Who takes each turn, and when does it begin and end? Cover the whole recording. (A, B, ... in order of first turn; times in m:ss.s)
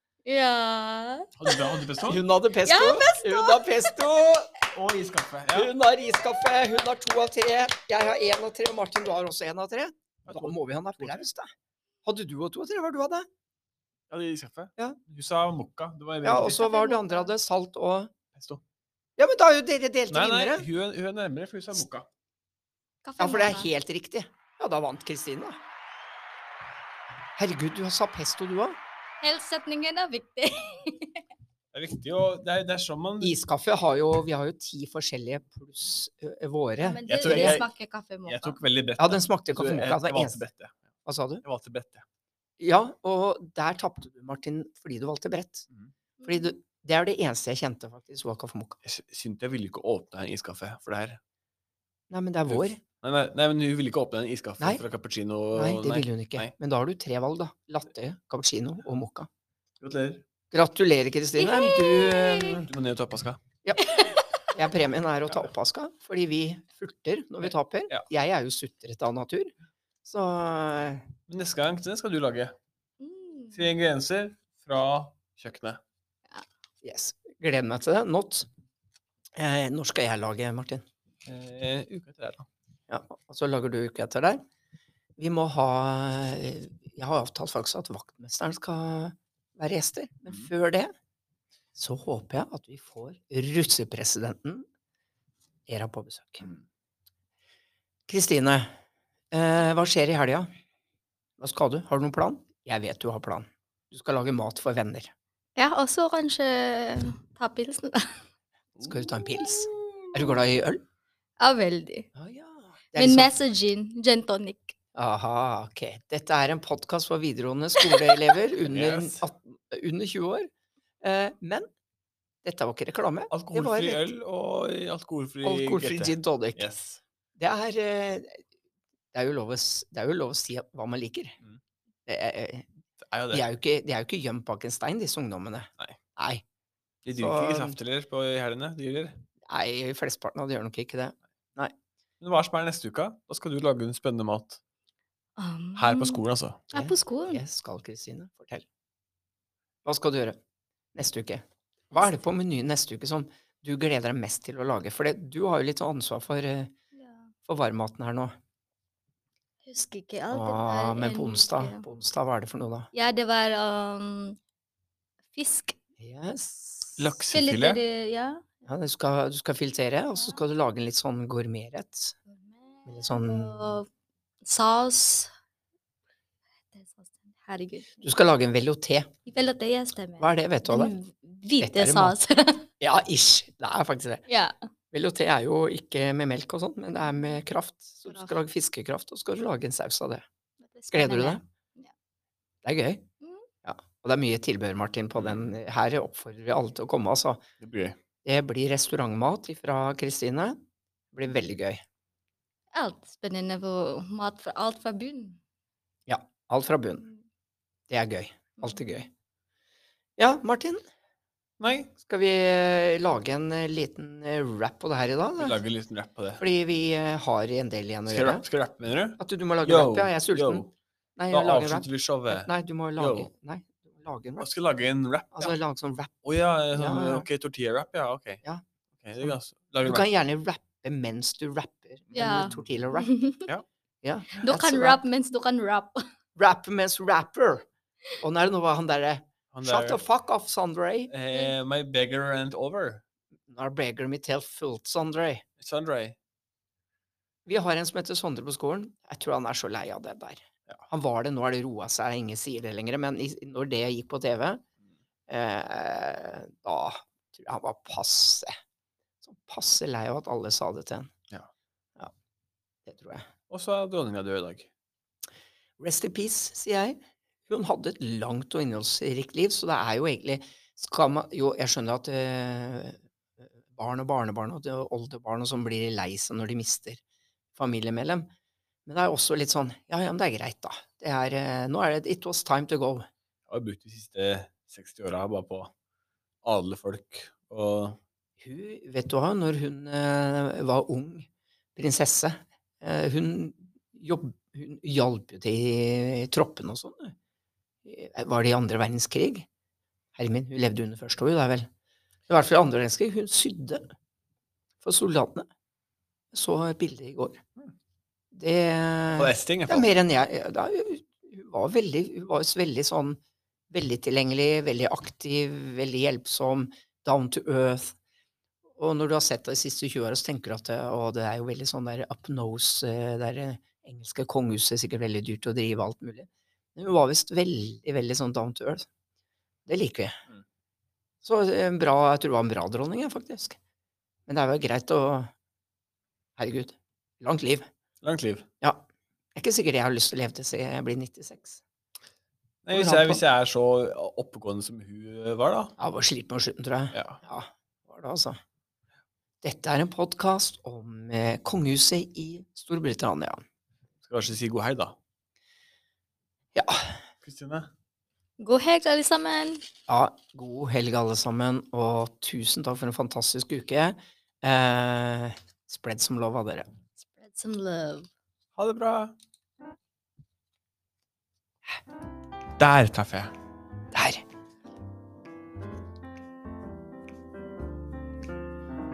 0:00.2-0:01.7 A
0:01.4-0:02.2 B
0:02.0-0:04.5 C
0:02.6-0:03.9 A
0:04.7-0:05.7 B
0:05.5-0:11.5 C
0:10.2-0:11.3 B
0:12.0-0:13.2 C
0:14.1-0:16.6 B
0:16.2-0:18.1 C
0:16.4-0:17.3 A
0:18.3-0:18.6 B
0:19.2-0:20.7 C
0:20.1-0:22.1 B
0:23.0-0:23.7 A
0:23.2-0:25.6 C
0:27.4-0:28.8 C
0:29.2-0:31.2 A
0:31.7-0:33.3 B
0:33.2-0:37.6 C
0:36.8-0:38.6 A
0:37.1-0:37.7 B
0:38.2-0:40.8 B
0:39.0-0:40.4 C
0:41.0-0:41.4 C
0:41.4-0:42.0 B
0:42.6-0:45.6 C
0:46.2-0:46.5 A
0:46.2-0:48.8 C
0:48.8-0:51.2 B
0:52.1-0:52.8 C
0:52.5-0:56.5 B
0:55.5-0:59.3 C
0:59.8-1:00.2 B
1:00.5-1:02.7 C
1:01.4-1:02.6 A
1:02.6-1:03.4 B
1:03.6-1:03.9 C
1:03.8-1:04.4 A
1:04.5-1:09.5 C
1:10.0-1:11.1 C
1:11.3-1:12.5 B
1:13.0-1:13.7 A
1:13.5-1:15.8 B
1:16.8-1:18.5 C
1:19.4-1:20.8 C
1:21.2-1:22.5 B
1:22.9-1:24.4 C
1:25.2-1:30.9 C
1:31.8-1:34.6 C
1:35.7-1:36.5 C
1:38.1-1:38.7 C
1:39.3-1:40.5 C
1:41.4-1:45.1 C
1:45.6-1:48.2 A
1:48.8-1:50.8 C
1:49.3-1:50.1 A
1:51.4-1:52.1 A
1:52.1-1:53.3 C
1:52.9-1:54.7 A
1:54.9-2:00.5 C
1:58.6-1:59.2 B
2:01.0-2:01.7 C
2:02.4-2:04.0 C
2:03.3-2:07.0 B
2:05.4-2:06.6 C
2:07.4-2:08.4 C
2:09.1-2:11.3 C
2:12.0-2:12.7 C
2:13.0-2:13.4 B
2:13.3-2:16.4 C
2:17.0-2:19.2 B
2:17.2-2:17.8 C
2:19.5-2:21.7 C
2:22.2-2:24.6 B
2:25.4-2:27.4 A
2:25.8-2:26.6 B
2:26.7-2:28.6 C
2:29.8-2:30.4 C
2:30.9-2:36.7 C
2:36.9-2:37.3 A
2:37.4-2:38.3 C
2:39.6-2:41.8 A
2:40.3-2:42.9 C
2:42.9-2:44.4 A
2:45.3-2:45.8 A
2:46.0-2:47.2 C
2:47.0-2:47.8 B
2:47.3-2:48.5 A
2:48.6-2:52.2 C
2:52.4-2:53.9 A
2:52.9-2:53.8 C
2:54.4-2:55.3 A
2:56.7-2:58.0 A
2:58.0-2:59.1 C
2:59.3-3:02.7 A
3:00.2-3:00.9 C
3:01.6-3:02.2 C
3:02.8-3:04.2 C
3:04.3-3:04.5 A
3:04.9-3:10.2 C
3:08.1-3:08.3 A
3:10.6-3:11.9 A
3:10.9-3:11.4 C
3:12.6-3:13.0 C
3:13.6-3:17.4 C
3:15.2-3:15.4 B
3:17.6-3:18.0 B
3:18.2-3:20.6 C
3:21.1-3:21.8 C
3:22.7-3:25.4 A
3:26.1-3:27.0 C
3:27.9-3:29.1 C
3:28.6-3:29.0 A
3:30.2-3:30.8 C
3:31.6-3:31.9 B
3:32.0-3:35.6 C
3:35.4-3:36.4 B
3:36.4-3:38.4 C
3:38.1-3:40.7 B
3:39.2-3:40.6 C
3:41.2-3:44.5 C
3:41.3-3:43.3 B
3:44.4-3:45.5 B
3:45.3-3:46.2 C
3:46.2-3:48.4 B
3:46.7-3:47.3 C
3:49.0-3:50.0 B
3:49.2-3:53.1 C
3:52.1-3:53.5 A
3:52.2-3:52.7 B
3:54.0-3:55.0 C
3:54.4-3:56.0 A
3:56.4-3:57.7 C
3:58.2-4:01.1 C
3:59.5-4:00.0 B
4:01.1-4:03.0 B
4:03.5-4:05.4 C
4:05.6-4:06.2 B
4:07.4-4:14.6 C
4:15.3-4:18.5 C
4:19.2-4:21.1 C
4:22.9-4:23.3 C
4:23.5-4:24.7 B
4:25.8-4:33.0 C
4:33.7-4:37.0 C
4:37.6-4:38.3 C
4:38.9-4:43.1 C
4:43.5-4:45.7 B
4:46.4-4:48.0 B
4:48.4-4:57.1 C
4:57.8-4:59.4 C
5:00.2-5:01.7 C
5:02.3-5:03.8 C
5:04.8-5:05.5 C
5:06.3-5:07.4 C
5:08.3-5:18.0 C
5:09.1-5:09.9 B
5:18.8-5:28.9 C
5:29.7-5:30.2 C
5:31.2-5:33.6 C
5:34.3-5:35.3 C
5:36.4-5:37.7 C
5:38.0-5:38.4 B
5:39.4-5:41.6 C
5:42.6-5:45.7 B
5:42.7-5:43.2 C
5:45.8-5:48.4 C
5:46.9-5:47.2 B
5:49.4-5:53.4 C
5:54.0-5:55.0 B
5:56.5-5:57.0 C
5:57.2-5:57.7 B
5:58.4-5:59.6 A
5:59.9-6:06.7 C
6:07.0-6:08.1 A
6:08.6-6:09.1 B
6:12.6-6:13.3 B
6:13.9-6:14.2 C